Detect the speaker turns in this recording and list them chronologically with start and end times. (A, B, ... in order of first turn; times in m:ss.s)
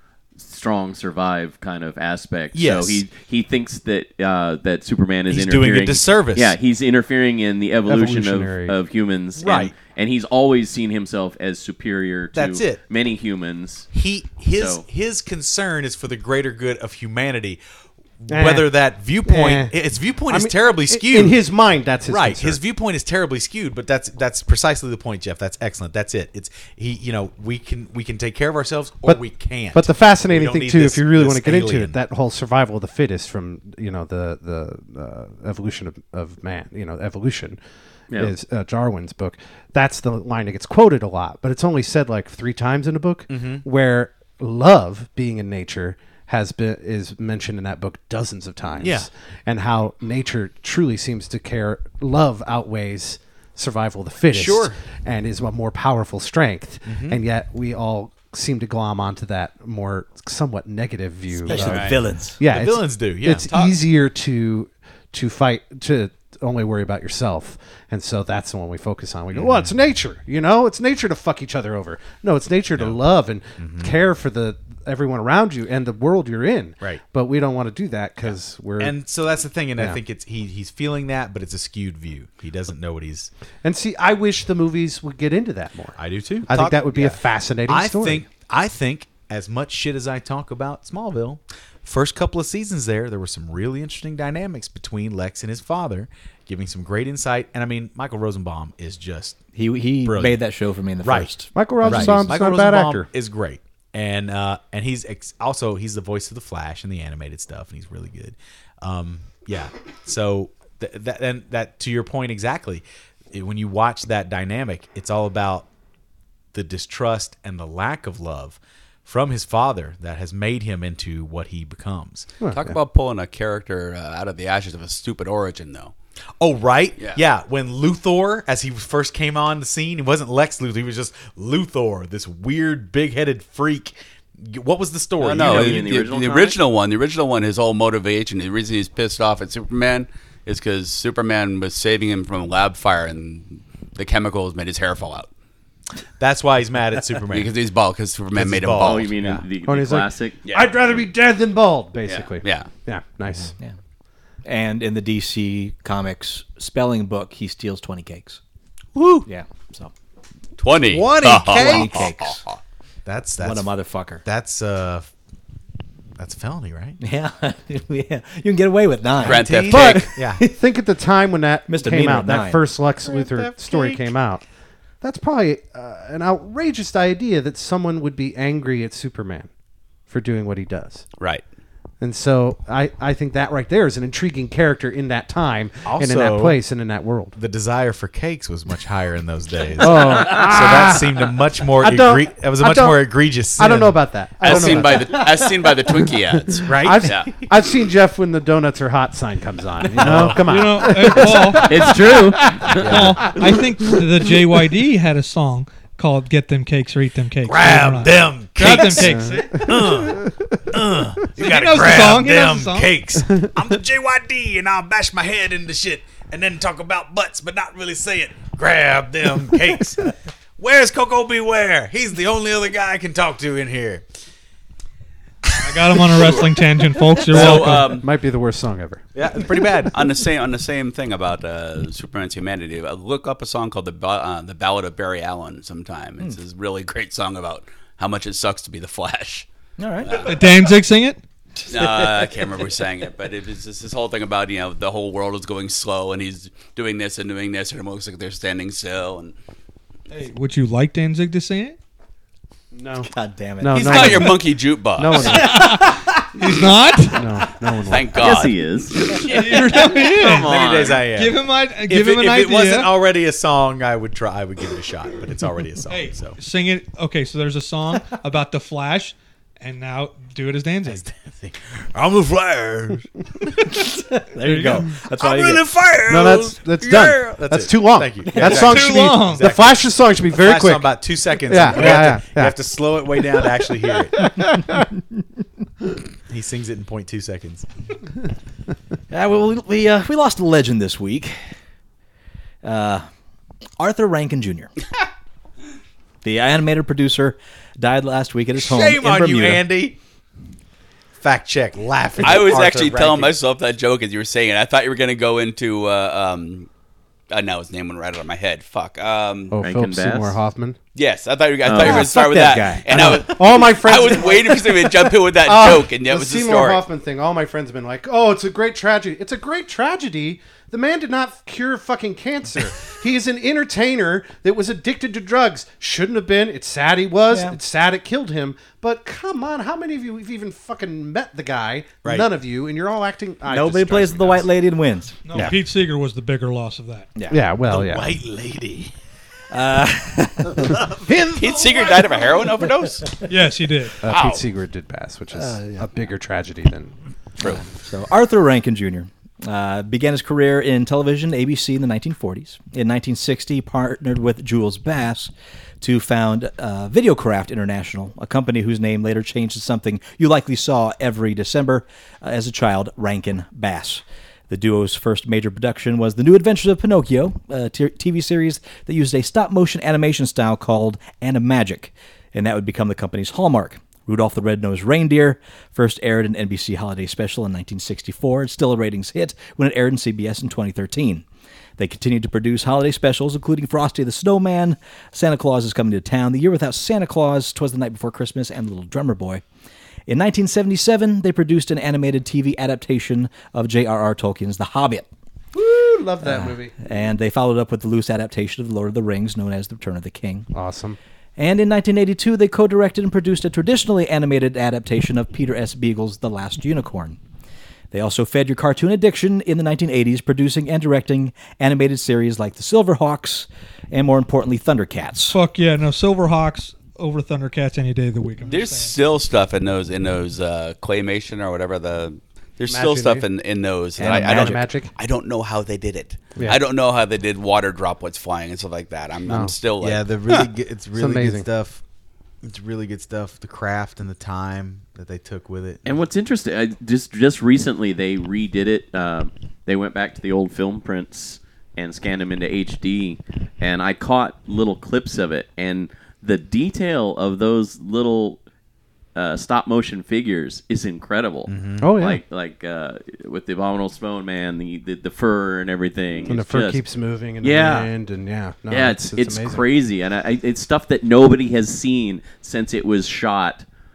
0:00.4-0:13.9 A
0:02.5-0:03.0 B
0:05.3-0:06.5 B
0:07.9-0:08.8 C
0:09.4-0:09.7 B
0:12.4-0:12.8 B
0:13.9-0:17.6 B
0:14.6-0:14.8 A
0:18.2-0:21.4 B
0:18.3-0:22.6 C
0:22.1-0:32.0 B
0:29.7-0:37.6 C
0:38.1-1:18.9 C
0:43.3-0:43.6 B
0:48.8-0:49.1 B
0:54.3-0:54.8 B
0:56.9-0:57.2 B
1:01.5-1:02.4 D
1:01.5-1:03.5 B
1:03.5-1:03.8 E
1:09.3-1:09.7 B
1:13.6-1:13.9 B
1:18.3-1:23.3 B
1:23.6-1:28.2 C
1:26.0-1:39.4 B
1:39.6-1:42.3 D
1:40.0-1:40.4 B
1:41.0-1:55.7 B
1:41.5-1:43.1 C
1:56.5-2:02.3 B
2:02.4-2:02.8 C
2:02.5-2:05.9 E
2:06.4-2:16.0 B
2:15.2-2:25.3 E
2:15.4-2:16.6 A
2:26.2-2:27.5 B
2:27.3-2:29.1 E
2:28.3-2:29.4 B
2:28.8-2:30.4 A
2:29.6-2:33.6 C
2:30.4-2:30.7 E
2:32.1-2:32.7 E
2:34.4-2:38.4 D
2:39.0-2:39.3 B
2:39.2-2:39.9 D
2:40.6-2:42.6 E
2:40.9-2:42.1 B
2:41.4-2:42.4 D
2:43.0-2:43.7 B
2:43.4-2:44.2 D
2:44.2-2:45.1 B
2:46.2-2:47.0 B
2:47.0-2:49.5 D
2:49.2-2:50.2 E
2:49.2-2:50.4 B
2:49.7-2:54.4 C
2:51.7-2:52.6 D
2:53.0-2:54.0 B
2:55.0-2:59.5 C
3:00.1-3:01.1 C
3:01.2-3:01.4 E
3:02.0-3:07.4 C
3:05.9-3:06.6 B
3:07.4-3:14.0 B
3:09.8-3:15.3 C
3:14.4-3:17.3 E
3:14.5-3:15.0 B
3:16.6-3:17.3 B
3:16.6-3:22.1 C
3:20.0-3:20.5 B
3:20.4-3:21.9 F
3:21.5-3:23.1 B
3:21.6-3:22.8 A
3:22.8-3:23.4 E
3:22.8-3:29.9 F
3:27.4-3:44.0 B
3:29.8-3:30.4 C
3:31.4-3:32.9 F
3:45.4-3:46.0 B
3:45.6-3:48.0 F
3:47.2-3:48.1 E
3:47.3-3:47.7 B
3:47.4-3:49.0 C
3:49.1-3:50.0 B
3:49.9-3:59.5 E
3:59.8-4:00.2 D
4:00.0-4:00.4 E
4:00.2-4:01.2 F
4:01.7-4:09.4 E
4:01.7-4:02.3 D
4:10.1-4:11.8 F
4:12.7-4:15.7 C
4:13.2-4:14.4 D
4:13.7-4:15.5 E
4:15.2-4:16.2 D
4:15.5-4:17.3 F
4:17.1-4:18.4 C
4:17.8-4:19.2 E
4:18.2-4:21.0 A
4:19.2-4:22.9 F
4:20.2-4:26.4 B
4:25.9-4:31.0 F
4:30.9-4:33.6 B
4:33.7-4:35.6 D
4:34.4-4:34.9 F
4:35.2-4:44.3 B
4:36.1-4:42.6 C
4:38.3-4:38.7 D
4:38.4-4:39.5 F
4:41.7-4:42.1 D
4:44.2-4:44.8 C
4:46.3-4:47.7 B
4:49.1-4:51.4 D
4:52.6-4:53.1 D
4:53.8-4:54.7 D
4:56.2-4:59.6 D
4:58.6-5:00.0 B
5:01.2-5:03.4 B
5:02.2-5:06.7 E
5:07.3-5:09.6 E
5:09.5-5:10.8 C
5:09.6-5:10.4 A
5:11.0-5:16.8 E
5:11.6-5:12.2 A
5:11.7-5:13.3 D
5:12.9-5:34.4 C
5:27.3-5:27.6 D
5:32.0-5:32.3 B
5:33.5-5:35.2 D
5:35.3-5:37.1 F
5:37.2-5:37.4 D
5:37.3-5:38.1 C
5:37.7-5:38.9 B
5:39.5-5:40.8 D
5:40.6-5:42.3 B
5:41.3-5:43.2 E
5:43.3-5:44.0 F
5:44.0-5:46.9 C
5:45.4-5:45.8 D
5:47.4-6:21.2 D
6:21.8-6:29.4 D
6:30.1-6:35.1 D
6:35.5-6:36.7 C
6:36.2-6:40.5 D
6:40.5-6:41.0 C
6:41.4-6:47.2 D
6:47.9-6:55.4 D
6:55.3-6:59.0 F
6:58.4-7:10.0 E
7:02.7-7:03.3 C
7:04.0-7:04.9 C
7:04.0-7:04.6 D
7:09.3-7:09.5 C
7:09.8-7:11.8 B
7:11.0-7:11.5 C
7:12.4-7:15.8 B
7:15.8-7:28.4 A
7:29.2-7:36.8 A
7:31.5-7:31.9 B
7:31.8-7:32.2 C
7:36.2-7:39.6 C
7:37.4-7:37.9 A
7:38.7-7:43.6 A